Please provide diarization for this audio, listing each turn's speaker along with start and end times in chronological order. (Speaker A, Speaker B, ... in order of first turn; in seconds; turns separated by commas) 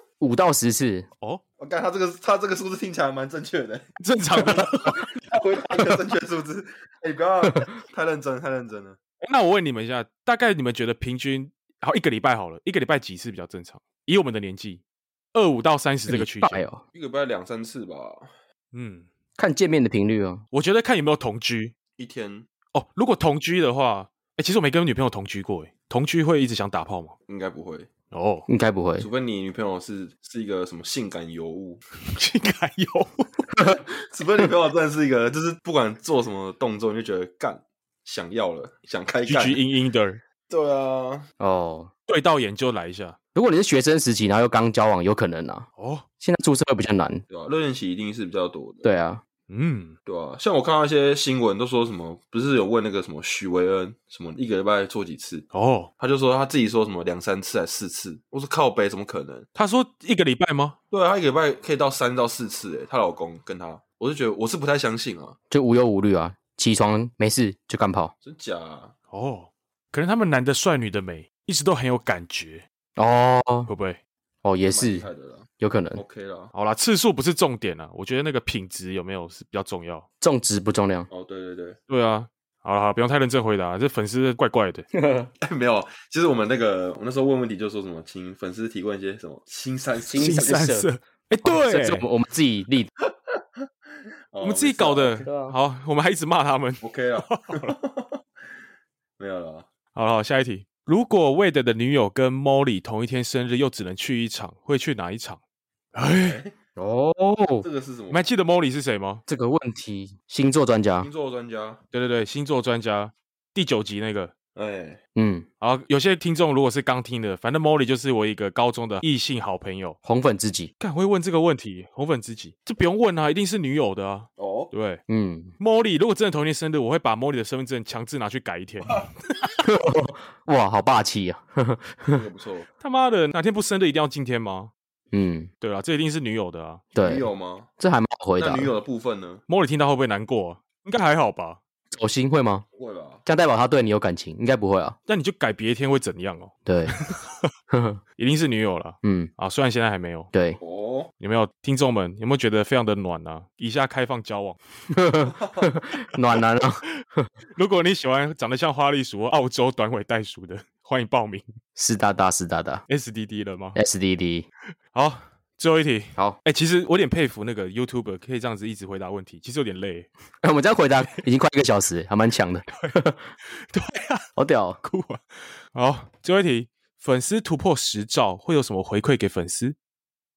Speaker A: 0.2-1.1, Speaker B: 1.6-9.0, Speaker C: 4.0-5.0, Speaker A: 4.8-5.1, Speaker C: 9.2-14.8, Speaker C: 15.3-16.6, Speaker A: 16.1-16.8, Speaker B: 16.9-18.3, Speaker C: 18.7-19.1, Speaker A: 19.4-20.4, Speaker C: 20.5-21.7, Speaker B: 22.0-22.5, Speaker C: 22.7-27.1, Speaker B: 27.3-27.9, Speaker C: 28.1-28.5, Speaker A: 28.5-29.1, Speaker B: 29.0-31.8, Speaker C: 32.1-33.3, Speaker A: 33.6-33.8, Speaker B: 34.1-39.6, Speaker C: 39.2-40.2, Speaker B: 40.5-41.3, Speaker A: 41.4-41.9, Speaker C: 42.1-43.2, Speaker A: 43.3-45.7, Speaker C: 45.8-46.0, Speaker A: 46.2-47.2, Speaker B: 47.3-48.9, Speaker A: 48.8-49.2, Speaker C: 49.5-50.0, Speaker B: 50.0-55.5, Speaker C: 55.5-55.9, Speaker B: 56.0-59.5, Speaker C: 59.5-60.8, Speaker B: 60.9-65.3, Speaker A: 65.5-68.1, Speaker B: 68.2-68.9, Speaker C: 69.1-72.6, Speaker A: 73.0-73.7, Speaker C: 73.7-74.0, Speaker A: 74.4-75.0, Speaker B: 74.7-76.5, Speaker A: 75.6-76.0, Speaker C: 76.5-80.0, Speaker A: 80.2-81.1, Speaker B: 81.1-81.8, Speaker C: 81.9-84.8, Speaker A: 84.9-85.3, Speaker B: 85.4-90.6, Speaker A: 90.0-90.9, Speaker C: 90.1-92.1, Speaker A: 91.4-92.9, Speaker B: 94.3-95.3, Speaker C: 94.4-97.8, Speaker A: 95.2-95.5, Speaker B: 96.8-98.2, Speaker B: 99.2-99.7, Speaker C: 99.9-105.4, Speaker C: 105.9-106.4, Speaker B: 106.2-106.5, Speaker A: 106.8-107.7, Speaker B: 107.6-108.3, Speaker C: 108.1-109.2, Speaker A: 109.3-111.1, Speaker B: 111.0-111.8, Speaker C: 111.9-114.3, Speaker B: 114.5-115.0, Speaker A: 115.2-115.5, Speaker C: 115.6-120.0, Speaker A: 120.0-120.7, Speaker C: 120.8-125.0, Speaker B: 124.4-124.7, Speaker A: 125.1-125.5, Speaker C: 125.6-129.0, Speaker A: 129.6-132.2, Speaker B: 132.1-132.7, Speaker C: 132.8-134.7, Speaker A: 135.1-135.5, Speaker C: 135.6-136.8, Speaker A: 136.9-137.3, Speaker B: 137.0-137.7, Speaker A: 137.8-138.7, Speaker B: 138.4-139.4, Speaker C: 139.5-141.6, Speaker A: 141.9-142.6, Speaker B: 142.7-143.2, Speaker A: 143.2-145.0, Speaker C: 145.1-147.5, Speaker A: 146.7-147.0, Speaker A: 147.7-148.0, Speaker C: 148.2-150.3, Speaker A: 149.0-149.3, Speaker A: 150.3-150.6, Speaker B: 150.6-151.1, Speaker C: 151.2-154.6, Speaker A: 154.9-157.3, Speaker B: 155.4-155.7, Speaker C: 157.6-161.5, Speaker A: 161.8-162.8, Speaker C: 162.9-163.8, Speaker A: 163.7-164.5, Speaker C: 164.9-170.1, Speaker A: 170.4-173.2, Speaker C: 173.6-174.3, Speaker A: 174.4-174.8, Speaker C: 174.8-175.2, Speaker C: 175.7-179.8